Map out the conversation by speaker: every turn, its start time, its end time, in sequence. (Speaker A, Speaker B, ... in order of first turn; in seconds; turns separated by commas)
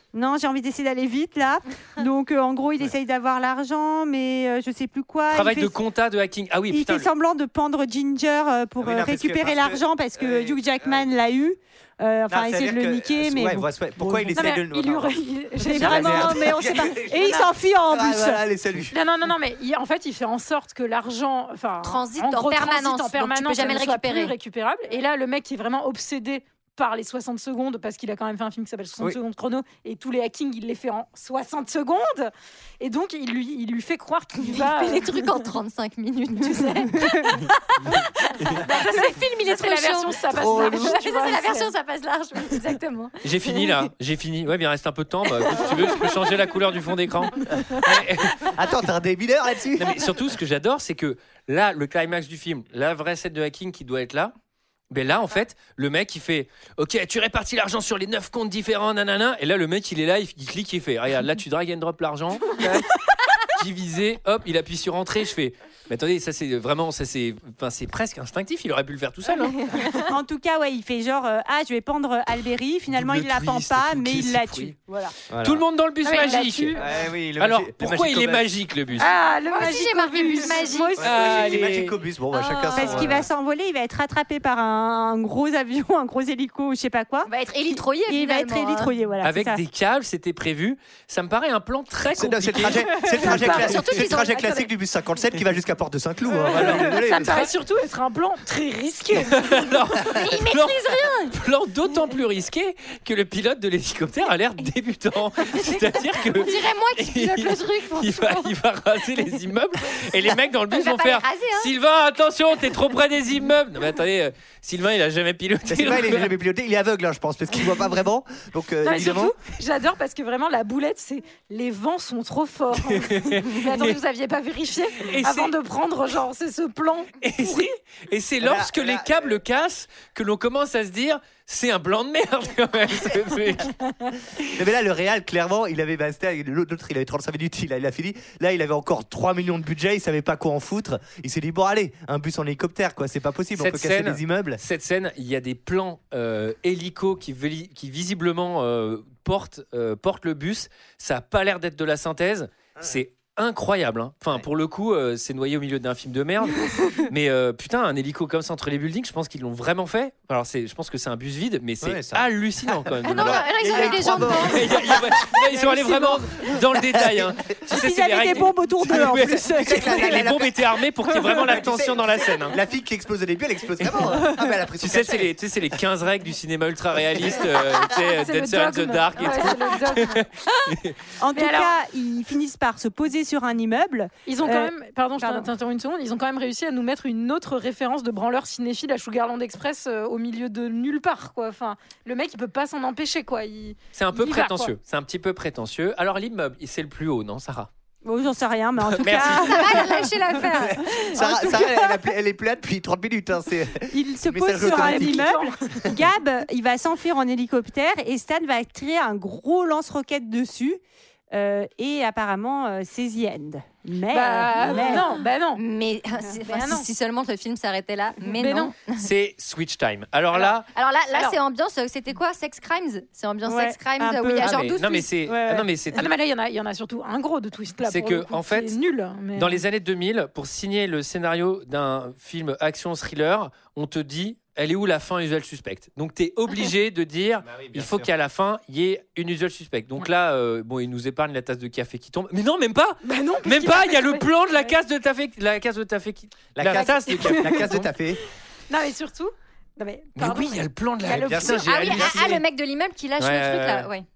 Speaker A: 0.1-5.8, Speaker B: 5.3-7.1, Speaker A: 6.7-13.7, Speaker C: 8.8-11.1, Speaker C: 12.3-19.0, Speaker D: 14.1-16.7, Speaker A: 15.7-18.4, Speaker D: 18.9-35.3, Speaker E: 21.8-24.4, Speaker E: 34.4-43.2, Speaker D: 38.6-41.7, Speaker C: 40.3-41.0, Speaker B: 43.2-48.6, Speaker C: 48.4-50.1, Speaker B: 49.8-54.3, Speaker B: 54.9-69.7, Speaker A: 70.1-75.1, Speaker B: 72.9-74.8, Speaker C: 75.3-75.7, Speaker B: 75.4-76.8, Speaker D: 76.0-76.9, Speaker C: 76.8-78.5, Speaker B: 77.4-79.1, Speaker D: 79.0-81.1, Speaker E: 79.5-81.0, Speaker C: 81.0-83.3, Speaker B: 81.0-82.0, Speaker E: 82.3-83.1, Speaker A: 82.7-89.6, Speaker E: 87.3-88.9, Speaker B: 89.2-93.6, Speaker C: 92.1-97.5, Speaker E: 93.2-94.7, Speaker D: 93.3-94.2, Speaker D: 96.5-99.7, Speaker B: 99.2-116.3, Speaker E: 100.0-101.3, Speaker E: 105.9-108.5, Speaker E: 110.7-111.7, Speaker C: 115.7-119.3, Speaker D: 118.8-127.7, Speaker B: 122.8-124.0, Speaker B: 125.0-125.5, Speaker B: 127.2-133.7, Speaker C: 128.4-129.4, Speaker C: 134.5-144.6, Speaker B: 143.6-172.6, Speaker C: 161.8-167.7, Speaker E: 163.0-165.0, Speaker A: 167.7-170.2, Speaker C: 168.9-175.3, Speaker B: 174.8-181.0, Speaker D: 178.0-180.3, Speaker A: 181.2-185.5, Speaker D: 181.3-181.7, Speaker D: 184.3-194.7, Speaker B: 193.9-197.7, Speaker A: 198.0-200.1, Speaker B: 198.8-199.7, Speaker E: 199.3-201.5, Speaker C: 200.5-206.0, Speaker A: 201.2-201.9, Speaker A: 203.9-210.8, Speaker D: 204.6-205.6, Speaker A: 211.3-215.1, Speaker D: 214.1-215.6, Speaker E: 215.6-219.1, Speaker D: 216.5-216.9, Speaker D: 218.4-218.7, Speaker B: 219.0-220.7, Speaker E: 220.7-225.1, Speaker A: 223.4-225.7, Speaker B: 224.4-226.1, Speaker D: 225.9-229.6, Speaker B: 227.9-228.8, Speaker B: 229.3-247.9, Speaker C: 237.6-238.1, Speaker D: 243.0-244.3, Speaker C: 246.6-248.2, Speaker D: 246.8-247.7, Speaker D: 248.7-251.7, Speaker B: 250.2-252.4, Speaker C: 251.1-252.4, Speaker E: 251.6-254.1, Speaker B: 253.2-253.9